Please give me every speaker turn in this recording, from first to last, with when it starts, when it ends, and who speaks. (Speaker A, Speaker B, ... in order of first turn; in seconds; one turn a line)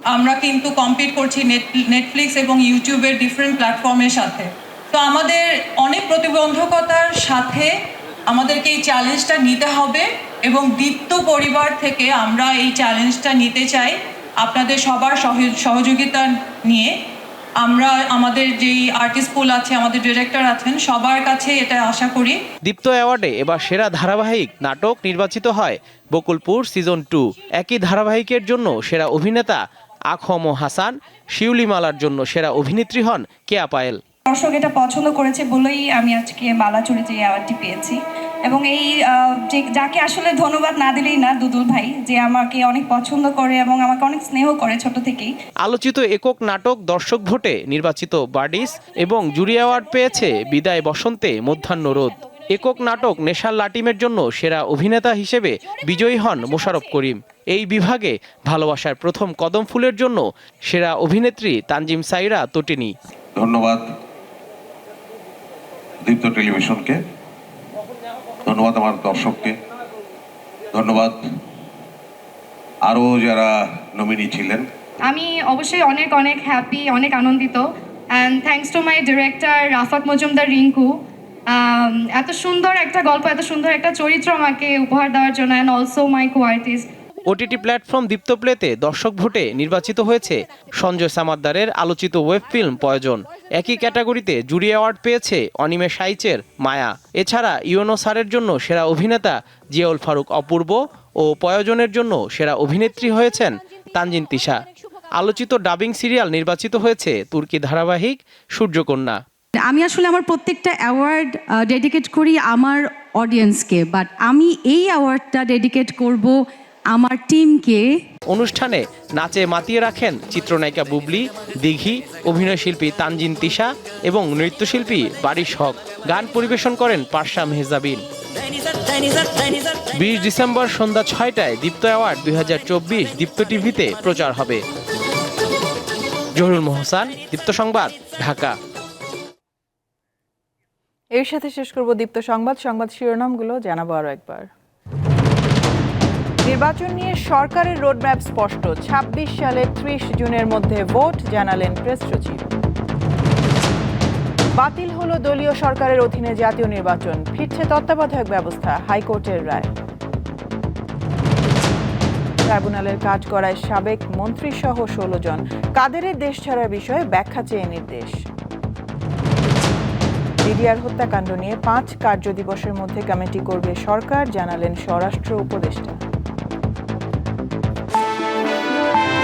Speaker A: 0.1-7.7
Speaker A: 8.3-16.9
Speaker A: 17.6-22.4
Speaker B: 22.6-29.6
Speaker B: 30.1-34.0
Speaker C: 34.3-45.3
Speaker B: 45.6-62.9
Speaker D: 63.4-63.9
Speaker D: 66.0-67.0
Speaker D: 68.5-69.6
Speaker D: 70.7-71.2
Speaker D: 72.9-74.7
Speaker C: 75.1-77.6
Speaker C: 78.2-80.9
Speaker C: 81.5-86.9
Speaker B: 87.3-109.2
Speaker E: 109.6-116.4
Speaker E: 116.9-117.8
Speaker B: 118.3-128.0
Speaker B: 129.9-134.6
Speaker B: 136.3-138.6
Speaker F: 141.1-144.5
Speaker F: 146.4-152.4
Speaker F: 154.6-159.7
Speaker F: 162.5-168.2
Speaker F: 170.4-176.0